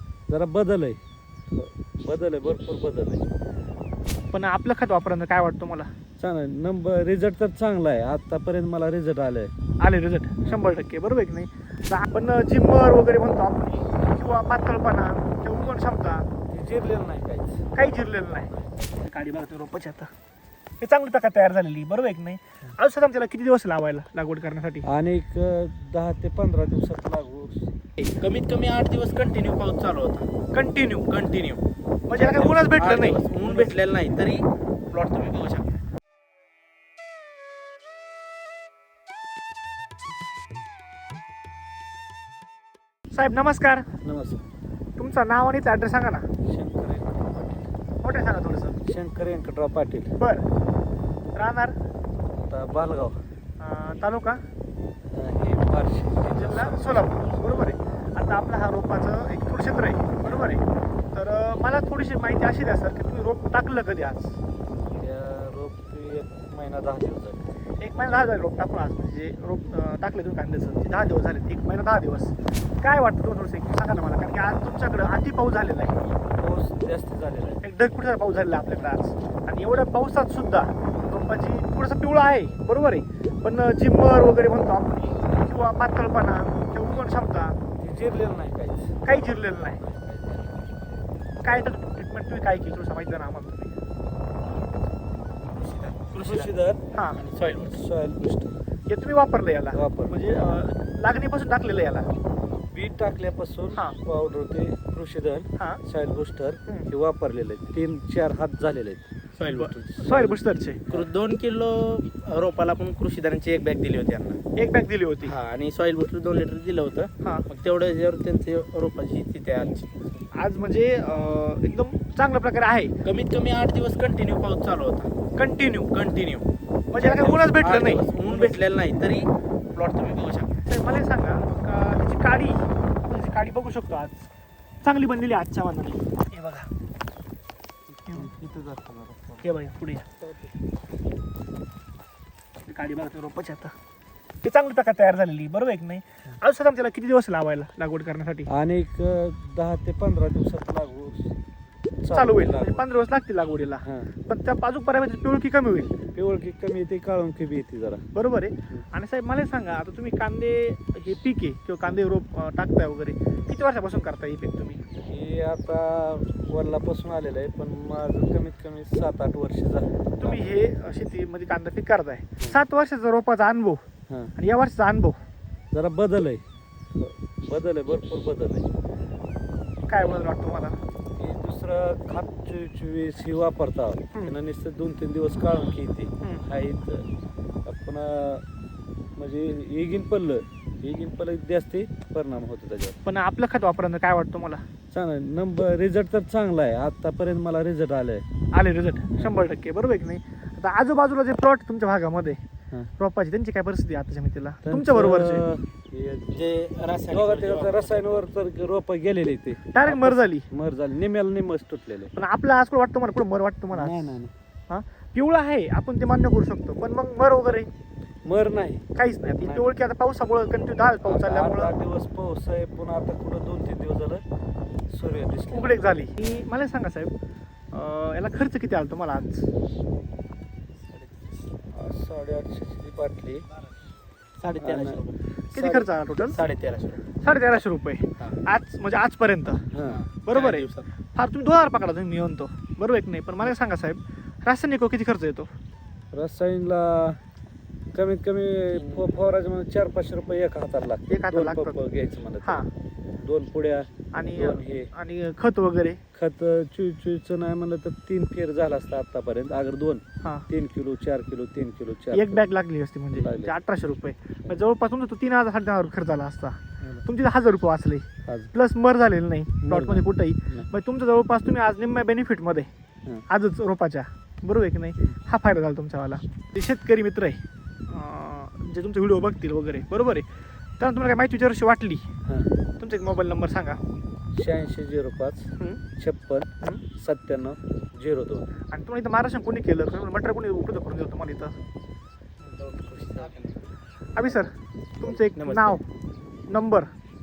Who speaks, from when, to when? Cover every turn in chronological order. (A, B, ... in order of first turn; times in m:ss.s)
0:00.3-0:01.0 A
0:01.5-0:03.3 A
0:04.3-0:05.9 B
0:06.2-0:09.5 A
0:09.8-0:16.3 B
0:16.5-0:17.7 A
0:17.7-0:20.1 B
0:20.8-0:24.9 B
0:24.9-0:27.7 A
0:28.1-0:30.3 C
0:30.5-0:31.1 B
0:31.1-0:35.7 C
0:32.1-0:33.8 B
0:43.1-0:43.9 B
0:44.0-0:44.4 A
0:45.0-0:46.3 B
0:46.4-0:47.7 A
0:48.0-0:48.8 B
0:48.8-0:50.1 A
0:50.2-0:50.4 B
0:51.3-0:51.8 B
0:52.3-0:53.2 A
0:53.6-0:54.4 B
0:55.1-0:57.4 A
0:56.3-1:04.4 B
1:00.1-1:00.6 A
1:04.9-1:08.3 A
1:07.8-1:16.0 B
1:16.4-1:17.6 A
1:17.6-1:27.6 B
1:27.8-1:29.2 A
1:29.0-1:29.8 B
1:29.8-1:30.5 A
1:31.4-1:33.8 B
1:35.4-1:36.5 C
1:36.1-1:36.8 A
1:36.9-1:37.2 B
1:37.1-1:37.8 C
1:37.6-1:38.6 A
1:38.9-1:42.1 B
1:39.7-1:40.1 A
1:42.7-1:49.1 A
1:49.4-1:50.3 C
1:49.5-1:50.8 B
1:50.1-1:50.3 A
1:50.9-1:54.4 C
1:54.6-1:55.3 B
1:55.2-2:00.3 C
2:00.3-2:03.0 B
2:03.0-2:05.1 C
2:05.4-2:05.9 B
2:05.9-2:10.8 C
2:06.9-2:08.6 B
2:10.7-2:14.3 B
2:14.8-2:16.7 B
2:17.9-2:19.5 A
2:19.4-2:20.1 B
2:22.7-2:23.7 B
2:24.4-2:28.5 B
2:28.5-2:31.3 A
2:32.0-2:32.9 A
2:32.1-2:36.0 B
2:33.8-2:34.1 A
2:36.1-2:38.1 A
2:38.2-2:44.8 B
2:45.1-2:50.5 A
2:50.2-2:53.8 B
2:54.4-2:55.2 B
2:55.7-2:56.4 A
2:57.0-2:58.7 A
2:59.9-3:00.8 B
3:01.2-3:07.1 A
3:07.6-3:08.4 A
3:09.2-3:13.0 A
3:13.0-3:14.6 B
3:14.9-3:18.2 A
3:18.5-3:22.4 B
3:19.1-3:19.4 A
3:23.0-3:25.4 B
3:24.6-3:26.5 A
3:26.3-3:28.3 C
3:27.1-3:32.1 A
3:29.7-3:30.5 B
3:32.1-3:34.2 B
3:33.7-3:34.3 A
3:34.7-3:37.7 B
3:38.2-3:39.7 A
3:39.0-3:41.8 B
3:41.0-3:44.2 A
3:44.9-3:46.5 A
3:45.5-3:47.1 B
3:47.7-3:49.5 B
3:50.9-3:51.5 C
3:51.7-3:53.4 A
3:54.4-3:55.2 C
3:54.6-3:55.0 A
3:55.5-3:55.9 A
3:55.5-3:56.4 B
3:56.2-3:57.1 C
3:57.2-3:59.7 B
3:59.7-4:00.0 A
3:59.9-4:00.9 C
4:00.2-4:05.5 B
4:06.1-4:07.2 A
4:07.9-4:12.7 A
4:08.7-4:09.2 C
4:11.1-4:11.8 B
4:12.4-4:12.7 B
4:13.2-4:14.9 A
4:14.1-4:16.0 B
4:16.1-4:22.4 A
4:22.1-4:32.7 B
4:23.2-4:23.6 A
4:26.8-4:27.1 A
4:29.6-4:30.7 A
4:33.3-4:40.3 B
4:40.8-4:42.1 B
4:42.2-4:42.5 A
4:42.8-4:43.8 B
4:44.3-4:48.5 A
4:48.7-4:51.5 B
4:52.4-4:53.6 C
4:54.1-4:55.8 B
4:55.0-4:55.8 C
4:56.5-4:56.9 B